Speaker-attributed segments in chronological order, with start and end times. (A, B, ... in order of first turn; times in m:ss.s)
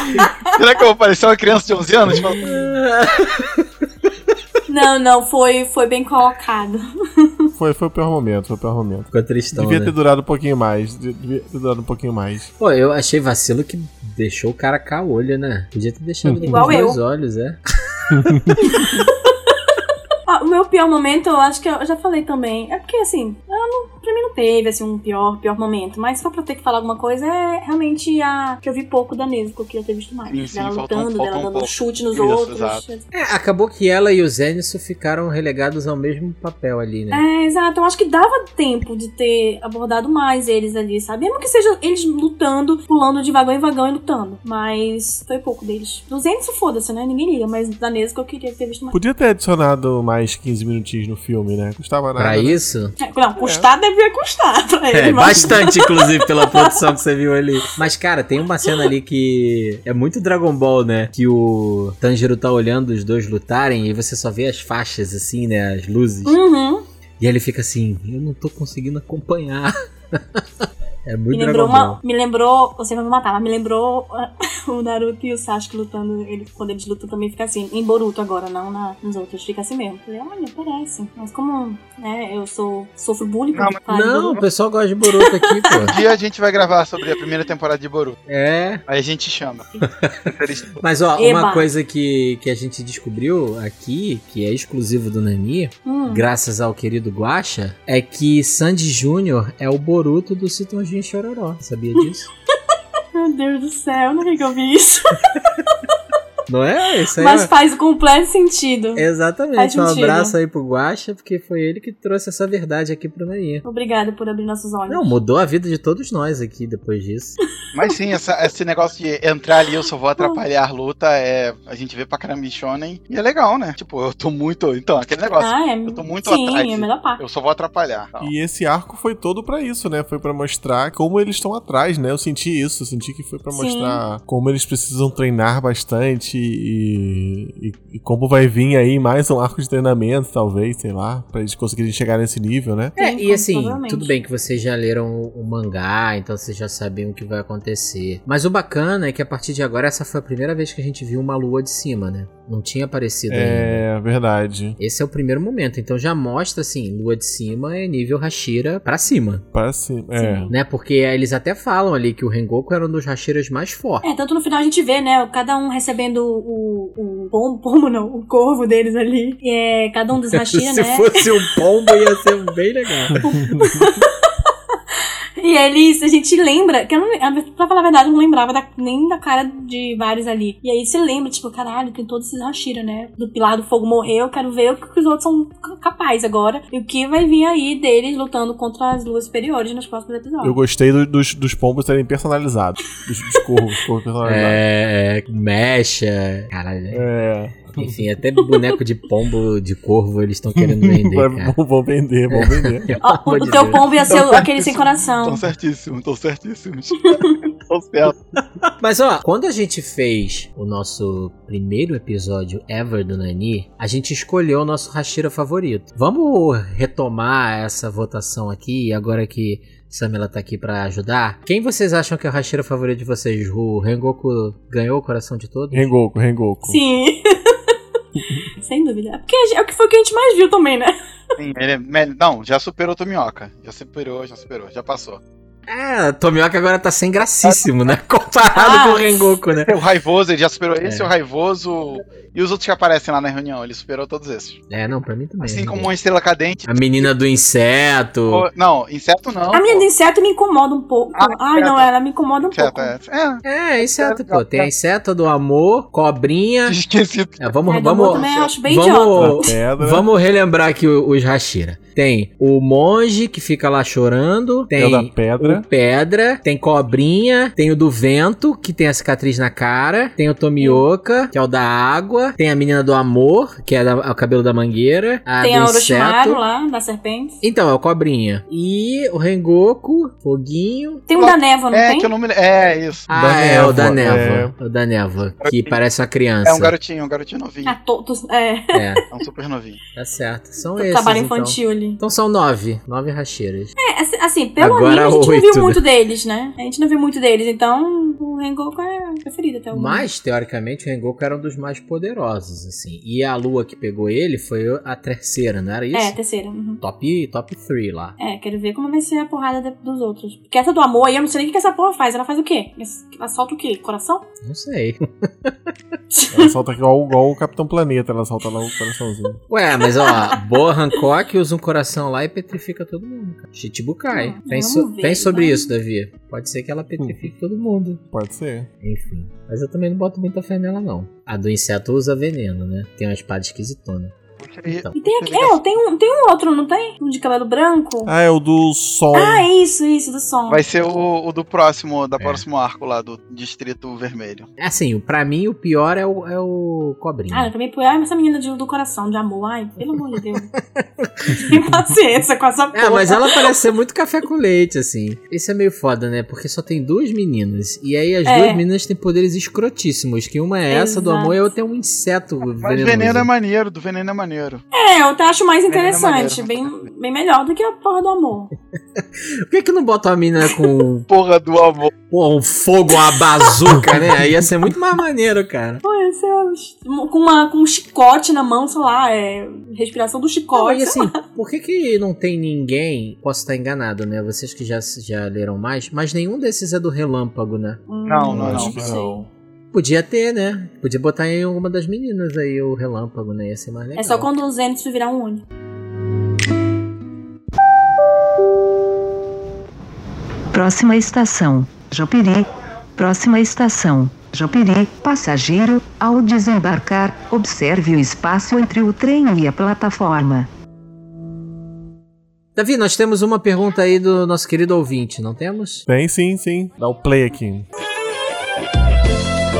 0:00.5-0:02.4 A
0:02.4-0:03.7 B
0:04.7-0:07.5 C
0:07.6-0:12.5 D
0:09.1-0:09.9 B
0:12.6-0:18.4 B
0:16.4-0:17.0 C
0:18.1-0:18.8 D
0:18.7-0:19.1 C
0:20.3-0:33.0 C
0:30.3-0:32.8 A
0:33.1-0:37.2 B
0:37.1-0:49.0 C
0:48.9-0:52.6 D
0:52.1-0:52.9 B
0:53.0-0:56.8 C
0:53.4-0:53.7 D
0:54.9-1:06.4 B
1:06.2-1:06.8 C
1:07.2-1:12.0 B
1:11.3-1:24.4 C
1:23.5-1:23.8 A
1:23.9-1:25.9 B
1:25.1-1:25.9 C
1:25.8-1:28.2 A
1:28.3-1:28.8 B
1:28.9-1:29.6 A
1:30.0-1:30.3 B
1:30.2-1:30.8 A
1:30.8-1:42.3 B
1:31.2-1:31.7 C
1:35.8-1:36.2 C
1:43.1-1:45.3 C
1:46.5-1:47.5 B
1:47.2-1:49.0 C
1:49.0-1:53.6 B
1:49.6-1:50.3 C
1:53.6-1:55.2 C
1:54.9-1:57.4 B
1:57.7-2:08.3 A
2:05.4-2:07.2 C
2:08.2-2:23.0 D
2:13.5-2:14.0 C
2:23.0-2:24.1 C
2:23.0-2:33.8 B
2:33.3-2:34.8 D
2:34.8-2:39.4 B
2:39.5-2:40.5 D
2:40.2-2:40.5 C
2:40.5-2:44.0 B
2:44.0-2:51.2 C
2:50.2-2:53.2 B
2:53.2-2:54.3 C
2:53.4-2:53.9 D
2:55.4-3:10.6 C
3:10.4-3:14.6 D
3:14.2-3:17.0 B
3:16.9-3:18.0 D
3:17.8-3:21.6 B
3:20.6-3:22.9 D
3:22.3-3:24.0 B
3:23.0-3:25.4 C
3:24.1-3:28.2 A
3:28.3-3:45.9 B
3:45.7-3:46.8 D
3:46.7-3:47.7 C
3:48.6-3:50.9 C
3:51.4-3:55.2 A
3:55.7-3:59.7 B
3:58.5-4:04.6 A
4:00.8-4:01.1 B
4:04.7-4:05.9 B
4:05.4-4:07.1 A
4:06.7-4:08.5 B
4:08.3-4:09.8 A
4:09.5-4:12.9 C
4:11.2-4:11.9 A
4:12.5-4:14.7 A
4:13.4-4:16.8 B
4:16.6-4:18.5 A
4:17.4-4:36.4 B
4:17.7-4:19.4 C
4:19.1-4:20.0 D
4:24.7-4:25.6 D
4:30.6-4:30.8 C
4:35.4-4:37.4 C
4:37.4-4:41.0 B
4:41.1-4:42.1 C
4:41.1-4:43.1 A
4:43.1-4:46.7 B
4:43.1-4:44.5 D
4:45.4-4:45.8 A
4:46.4-4:47.8 A
4:47.6-4:49.0 C
4:48.7-4:49.0 B
4:49.1-4:49.8 A
4:49.9-4:53.7 B
4:50.8-4:52.0 C
4:53.8-5:00.0 C
4:54.6-4:55.8 B
4:59.7-5:06.2 B
5:05.9-5:06.8 C
5:06.8-5:08.2 B
5:08.2-5:14.2 C
5:14.4-5:15.7 B
5:16.1-5:16.5 C
5:16.3-5:19.4 D
5:19.5-5:28.0 B
5:19.8-5:20.4 C
5:24.1-5:25.7 C
5:28.1-5:28.7 D
5:28.8-5:34.1 B
5:34.4-5:35.6 A
5:34.7-5:34.9 B
5:34.9-5:38.1 C
5:38.1-5:39.5 D
5:39.1-5:40.6 C
5:40.5-5:44.5 A
5:44.6-5:47.5 B
5:47.3-5:50.5 C
5:50.6-5:51.5 B
5:51.3-5:53.5 C
5:52.7-6:03.3 B
5:58.2-5:58.6 C
6:00.7-6:01.4 C
6:02.6-6:04.6 A
6:04.7-6:08.5 C
6:05.7-6:06.7 A
6:09.0-6:11.1 B
6:11.1-6:11.9 A
6:12.1-6:15.8 B
6:15.8-6:21.2 C
6:20.5-6:34.3 B
6:27.9-6:29.2 C
6:28.0-6:28.8 A
6:28.3-6:29.2 D
6:34.0-6:35.4 C
6:40.5-6:42.4 E
6:43.0-6:50.5 E
6:52.6-6:55.9 B
6:55.9-6:57.6 D